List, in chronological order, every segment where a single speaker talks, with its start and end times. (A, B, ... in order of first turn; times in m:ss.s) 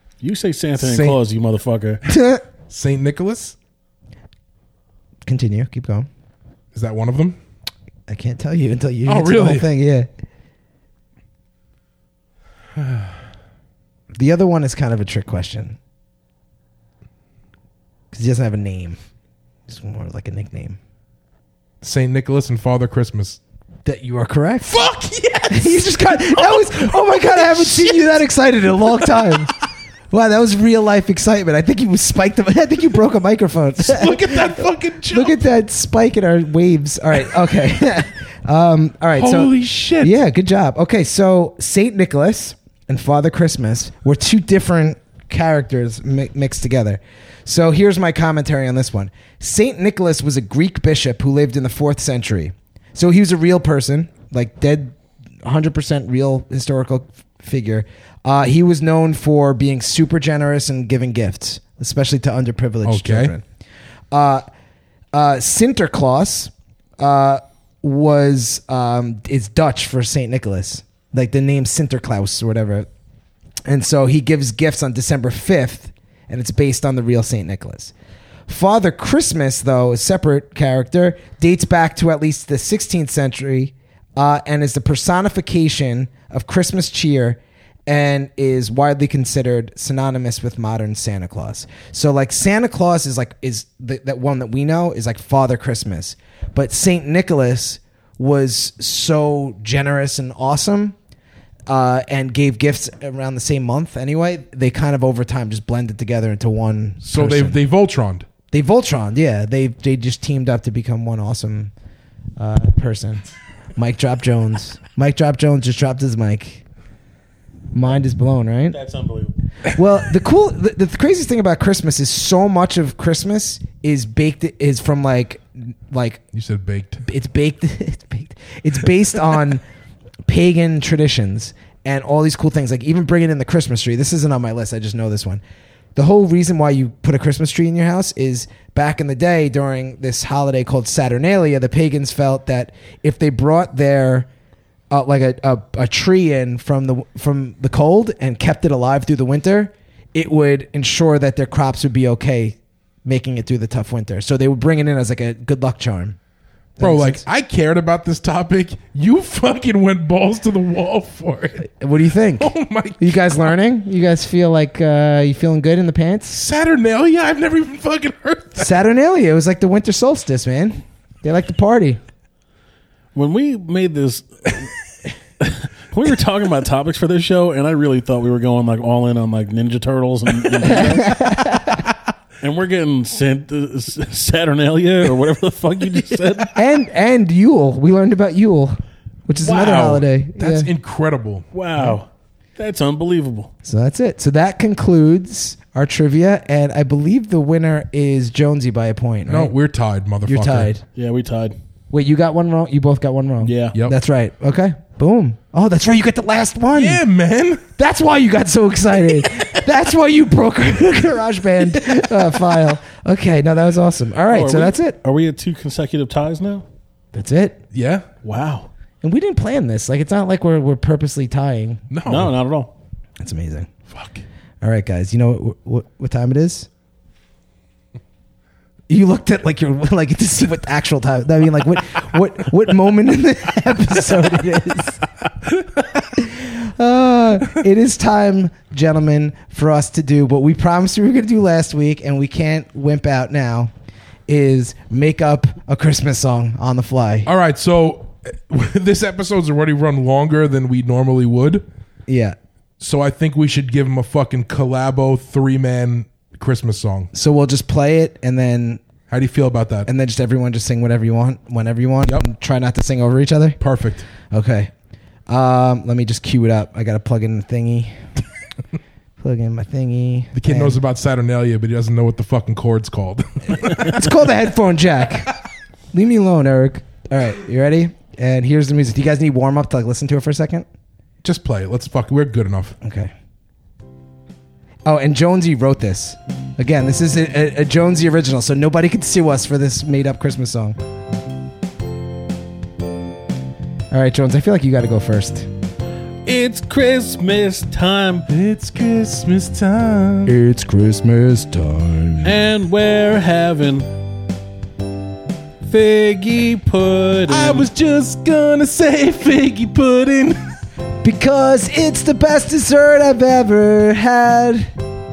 0:00.2-0:02.0 A
0:00.8-0:01.2 B
0:02.1-0:02.4 C
0:02.7-0:03.6 B
0:05.2-0:06.1 C
0:06.7-0:07.4 B
0:08.1-0:10.1 C
0:09.0-0:09.7 B
0:12.8-0:13.1 B
0:14.1-0:15.8 C
0:18.1-0:19.0 C
0:19.7-0:20.8 C
0:21.8-0:23.4 B
0:23.8-0:24.8 C
0:24.7-0:28.2 B
0:25.5-0:29.5 C
0:28.9-0:29.3 B
0:30.1-1:03.4 C
0:33.8-0:35.4 B
0:39.2-0:40.1 B
1:02.8-1:03.3 B
1:04.1-1:04.4 C
1:05.1-1:12.9 C
1:13.6-1:17.9 C
1:18.5-1:40.9 C
1:41.7-1:47.6 C
1:47.0-1:48.3 B
1:48.5-1:51.7 C
1:52.4-1:53.2 C
1:53.8-1:56.6 C
1:57.7-1:58.8 C
1:58.7-1:59.4 A
1:59.7-2:06.2 C
2:06.3-2:07.0 B
2:07.0-2:09.6 C
2:10.2-2:15.4 C
2:15.9-2:24.3 C
2:24.9-2:36.2 C
2:36.8-2:37.2 C
2:36.8-2:41.7 B
2:41.7-2:46.4 C
2:42.4-2:43.5 B
2:46.3-2:48.7 B
2:48.6-2:52.0 C
2:53.1-2:54.7 A
2:55.4-3:01.2 A
3:00.8-3:01.8 C
3:02.4-3:06.5 A
3:06.5-3:10.7 C
3:09.4-3:10.0 A
3:10.4-3:11.4 B
3:11.5-3:13.5 A
3:13.6-3:19.5 C
3:19.2-3:20.7 B
3:20.3-3:20.8 C
3:20.9-3:21.6 A
3:21.9-3:27.0 C
3:23.4-3:23.8 A
3:26.7-3:27.6 B
3:27.8-3:35.0 C
3:34.3-3:36.6 A
3:37.1-3:37.6 C
3:37.7-3:38.1 B
3:38.2-3:38.7 A
3:39.0-3:41.8 C
3:41.9-3:42.4 B
3:42.0-3:42.7 A
3:43.2-3:43.7 C
3:43.9-3:44.2 B
3:44.6-3:46.7 C
3:48.9-3:55.0 C
3:55.5-3:56.0 B
3:56.1-4:03.7 C
4:04.3-4:07.3 C
4:07.2-4:11.6 B
4:12.1-4:12.4 C
4:12.8-4:17.1 B
4:17.1-4:18.8 C
4:19.1-4:19.9 B
4:19.9-4:23.6 C
4:23.6-4:24.0 B
4:24.3-4:24.7 C
4:25.3-4:28.0 C
4:29.2-4:30.8 C
4:30.3-4:34.2 B
4:33.6-4:35.3 C
4:35.9-4:40.7 C
4:41.2-4:42.7 B
4:42.8-4:43.1 C
4:44.8-4:50.8 C
4:53.9-4:55.5 C
4:56.2-4:58.2 A
4:58.3-5:00.3 B
5:00.2-5:02.3 C
5:02.2-5:03.9 A
5:05.6-5:07.6 A
5:07.3-5:10.4 B
5:11.0-5:14.7 C